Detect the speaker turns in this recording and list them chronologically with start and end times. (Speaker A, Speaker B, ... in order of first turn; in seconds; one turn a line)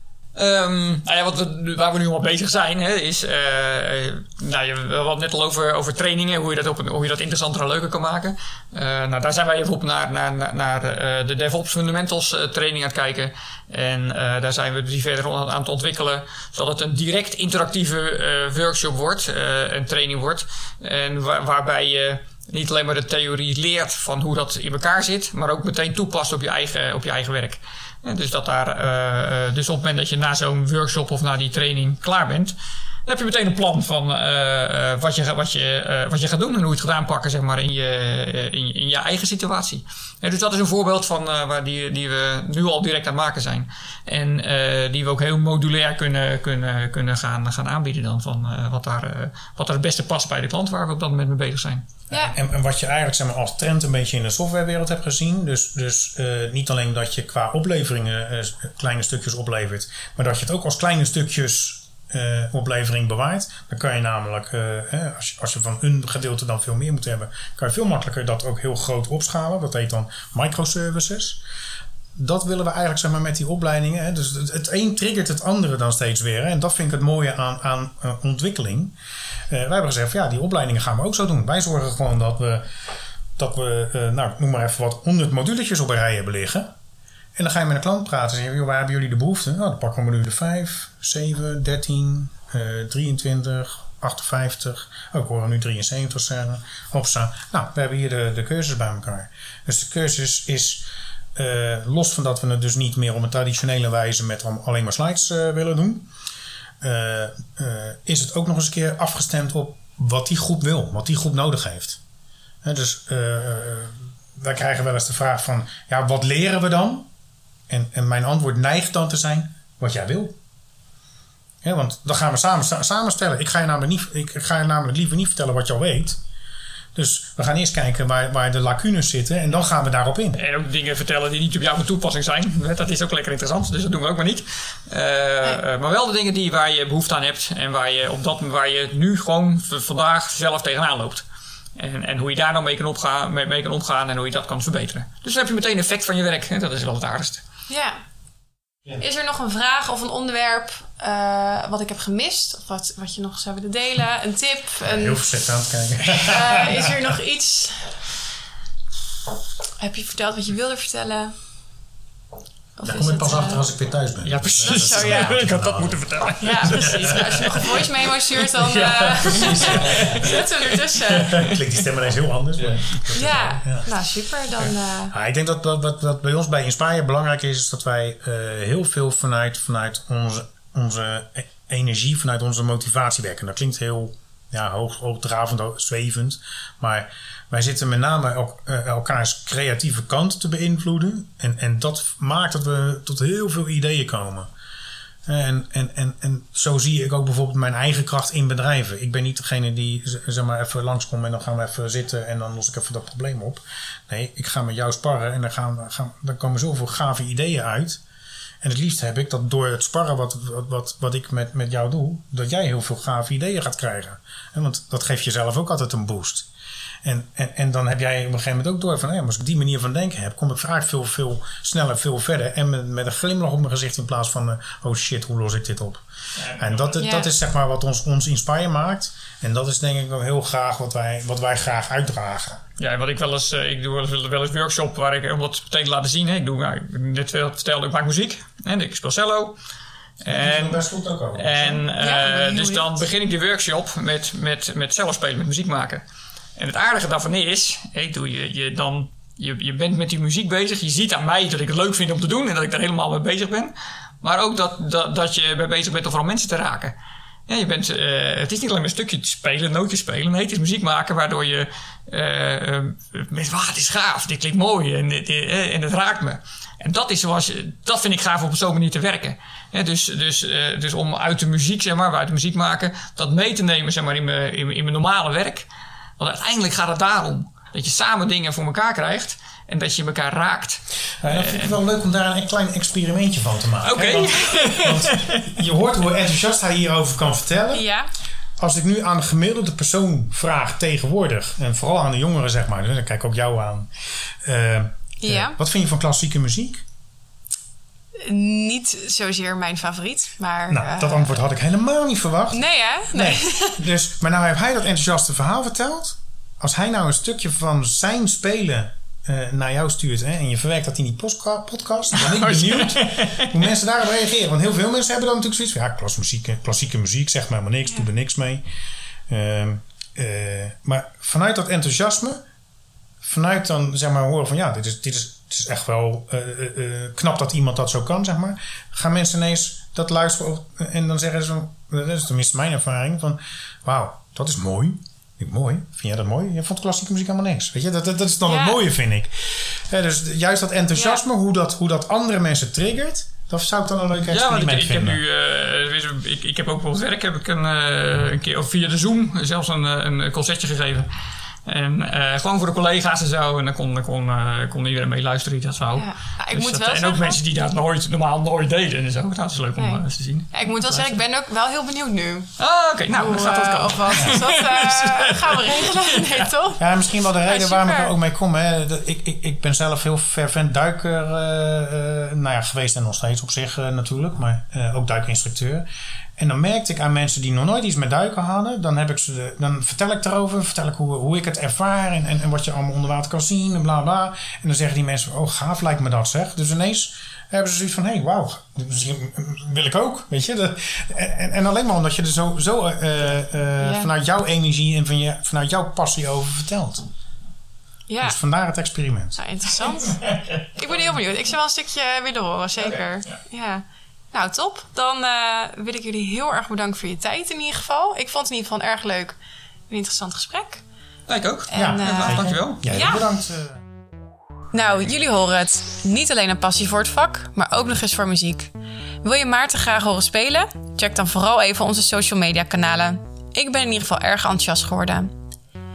Speaker A: 0.3-51.9
Speaker B: 52.1-71.4
Speaker B: 72.1-79.0
Speaker B: 79.5-82.7
Speaker B: 83.4-86.7
Speaker B: 87.3-106.1
Speaker B: 106.8-112.0
Speaker B: 112.6-117.1
Speaker B: 117.7-120.4
Speaker B: 121.6-126.2
Speaker B: 127.0-130.4
Speaker A: 130.4-141.2
Speaker A: 141.8-147.4
Speaker C: 147.7-148.0
Speaker C: 149.0-155.2
Speaker B: 154.9-157.1
Speaker C: 156.2-158.0
Speaker C: 159.8-161.3
Speaker C: 162.8-163.6
Speaker B: 162.8-166.1
Speaker A: 164.2-168.0
Speaker C: 164.7-165.3
Speaker C: 166.4-171.5
Speaker B: 166.8-167.7
Speaker B: 168.6-170.4
Speaker A: 169.3-170.7
Speaker B: 171.1-173.9
Speaker A: 172.7-173.0
Speaker C: 173.1-175.1
Speaker B: 175.1-194.5
Speaker B: 195.3-208.0
Speaker B: 208.6-216.5
Speaker B: 217.0-226.0
Speaker A: 226.4-227.0
Speaker B: 226.6-232.6
Speaker C: 227.0-227.3
Speaker A: 232.8-239.6
Speaker A: 240.2-240.8
Speaker B: 240.3-241.8
Speaker A: 241.3-246.0
Speaker C: 242.0-242.9
Speaker A: 246.6-256.9
Speaker A: 257.5-275.7
Speaker A: 276.2-281.8
Speaker B: 281.2-287.8
Speaker A: 283.8-285.5
Speaker C: 287.7-288.1
Speaker B: 288.6-296.8
Speaker C: 295.2-295.6
Speaker C: 298.2-301.3
Speaker B: 300.7-318.6
Speaker C: 302.5-303.8
Speaker A: 312.1-313.7
Speaker B: 319.3-322.4
Speaker B: 323.2-345.2
Speaker C: 338.5-338.8
Speaker C: 340.9-341.2
Speaker A: 344.3-351.1
Speaker A: 351.7-361.2
Speaker C: 355.9-357.4
Speaker C: 359.8-362.5
Speaker A: 362.6-366.5
Speaker C: 363.1-366.9
Speaker B: 366.8-397.1
Speaker C: 367.4-368.1
Speaker C: 393.8-394.1
Speaker C: 398.1-398.4
Speaker B: 398.2-399.4
Speaker C: 399.4-409.4
Speaker C: 409.9-410.8
Speaker A: 411.3-412.8
Speaker C: 411.7-413.2
Speaker B: 411.7-413.8
Speaker C: 414.7-425.3